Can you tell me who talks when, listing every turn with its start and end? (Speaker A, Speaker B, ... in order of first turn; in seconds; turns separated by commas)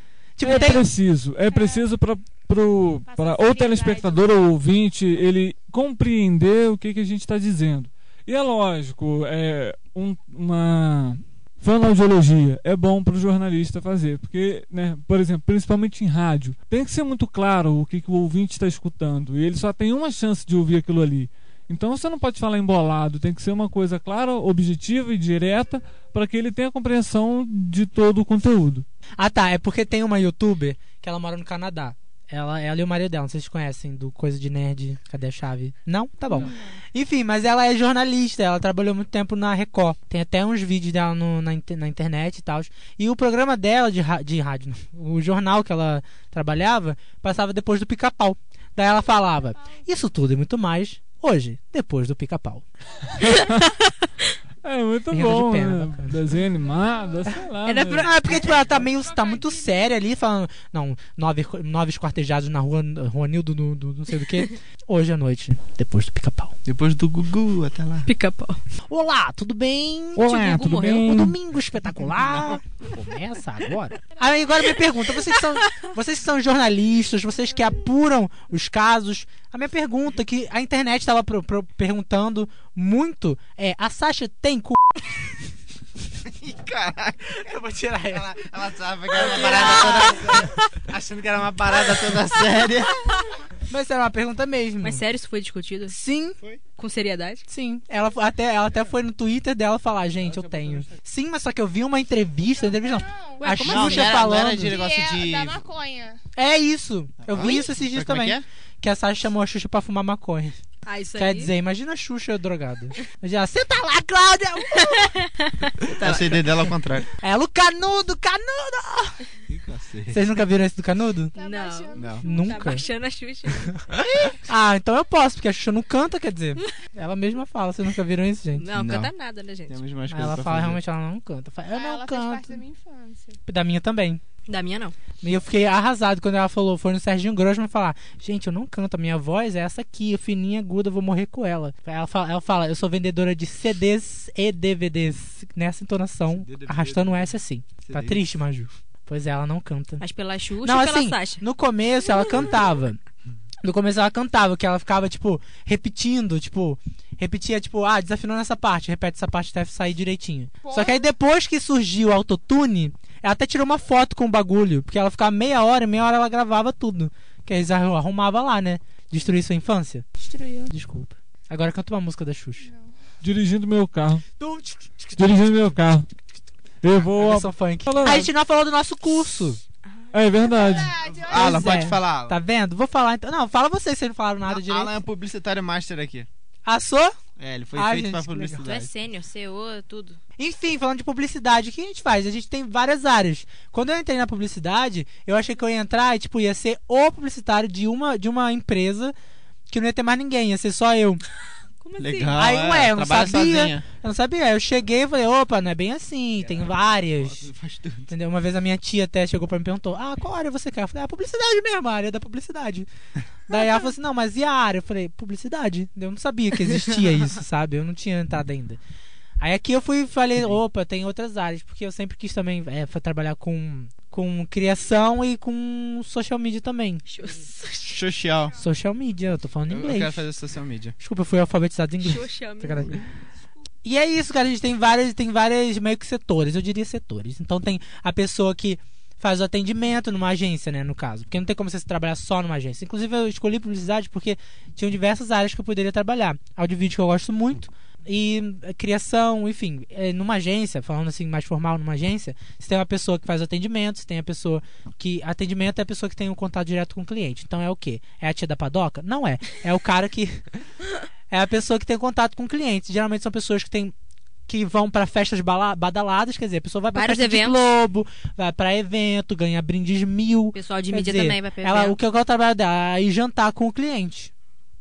Speaker A: 0.4-0.8, Speaker B: 0.4-28.9, Speaker C: 0.5-0.8, Speaker D: 1.5-1.9, Speaker D: 3.1-4.3, Speaker A: 29.2-52.6, Speaker D: 36.3-36.8, Speaker B: 53.2-53.7, Speaker C: 53.4-53.9, Speaker B: 54.6-58.1, Speaker A: 55.1-56.2, Speaker D: 56.8-57.1, Speaker C: 57.6-58.7, Speaker A: 58.0-66.5, Speaker D: 58.8-60.0, Speaker E: 66.7-68.1, Speaker C: 68.1-68.6, Speaker A: 68.9-70.3, Speaker B: 70.2-71.4, Speaker C: 70.2-71.3, Speaker A: 70.9-84.8, Speaker E: 72.2-72.6, Speaker E: 86.2-87.5, Speaker A: 87.3-88.3, Speaker E: 88.1-93.1, Speaker A: 89.2-90.5, Speaker C: 89.2-90.3, Speaker A: 93.7-95.0, Speaker C: 94.8-96.0, Speaker A: 95.9-96.4, Speaker C: 96.8-97.4, Speaker A: 97.5-104.8, Speaker E: 100.2-101.0, Speaker D: 102.6-103.4, Speaker C: 103.4-104.3, Speaker E: 103.7-105.6, Speaker D: 104.6-106.2, Speaker A: 106.4-110.6, Speaker E: 107.2-108.5, Speaker C: 110.9-111.5, Speaker A: 111.2-115.2, Speaker C: 114.7-116.5, Speaker E: 116.0-117.1, Speaker A: 117.2-119.2, Speaker E: 119.5-120.2, Speaker A: 120.1-121.3, Speaker D: 121.3-122.8, Speaker C: 121.4-123.8, Speaker E: 121.9-122.2, Speaker A: 122.2-122.8, Speaker E: 123.9-124.4, Speaker A: 124.4-128.7, Speaker C: 128.6-129.8, Speaker E: 128.7-129.1, Speaker E: 129.7-130.8, Speaker A: 130.1-132.6, Speaker D: 131.7-133.4, Speaker A: 133.5-134.2, Speaker C: 134.5-135.0, Speaker A: 135.2-150.0, Speaker E: 146.3-148.2, Speaker C: 150.0-151.4, Speaker A: 150.6-153.0, Speaker A: 153.6-170.1, Speaker D: 160.6-161.1, Speaker D: 170.2-170.7, Speaker A: 170.7-172.7, Speaker D: 172.6-172.9, Speaker B: 173.2-174.2, Speaker A: 174.4-175.6, Speaker B: 175.2-176.1, Speaker B: 176.8-178.3, Speaker A: 177.1-179.6, Speaker B: 180.1-181.0, Speaker D: 180.4-181.9, Speaker E: 181.0-182.4, Speaker A: 181.3-185.0, Speaker E: 184.5-186.3, Speaker A: 186.7-187.2, Speaker E: 187.4-188.9, Speaker A: 187.8-188.7, Speaker C: 188.6-190.2, Speaker A: 190.4-199.1, Speaker A: 199.7-201.2, Speaker C: 201.8-202.4, Speaker E: 202.0-203.8, Speaker A: 202.3-207.5, Speaker E: 206.4-208.1, Speaker A: 208.1-212.9, Speaker A: 213.5-218.8, Speaker A: 219.4-227.0, Speaker C: 227.1-228.1, Speaker E: 227.9-228.5, Speaker A: 228.6-230.3, Speaker E: 229.7-231.0, Speaker A: 231.0-233.0, Speaker C: 232.0-233.0, Speaker A: 233.8-260.4, Speaker A: 261.3-263.9, Speaker A: 264.5-274.3, Speaker C: 266.9-267.6, Speaker C: 270.5-272.0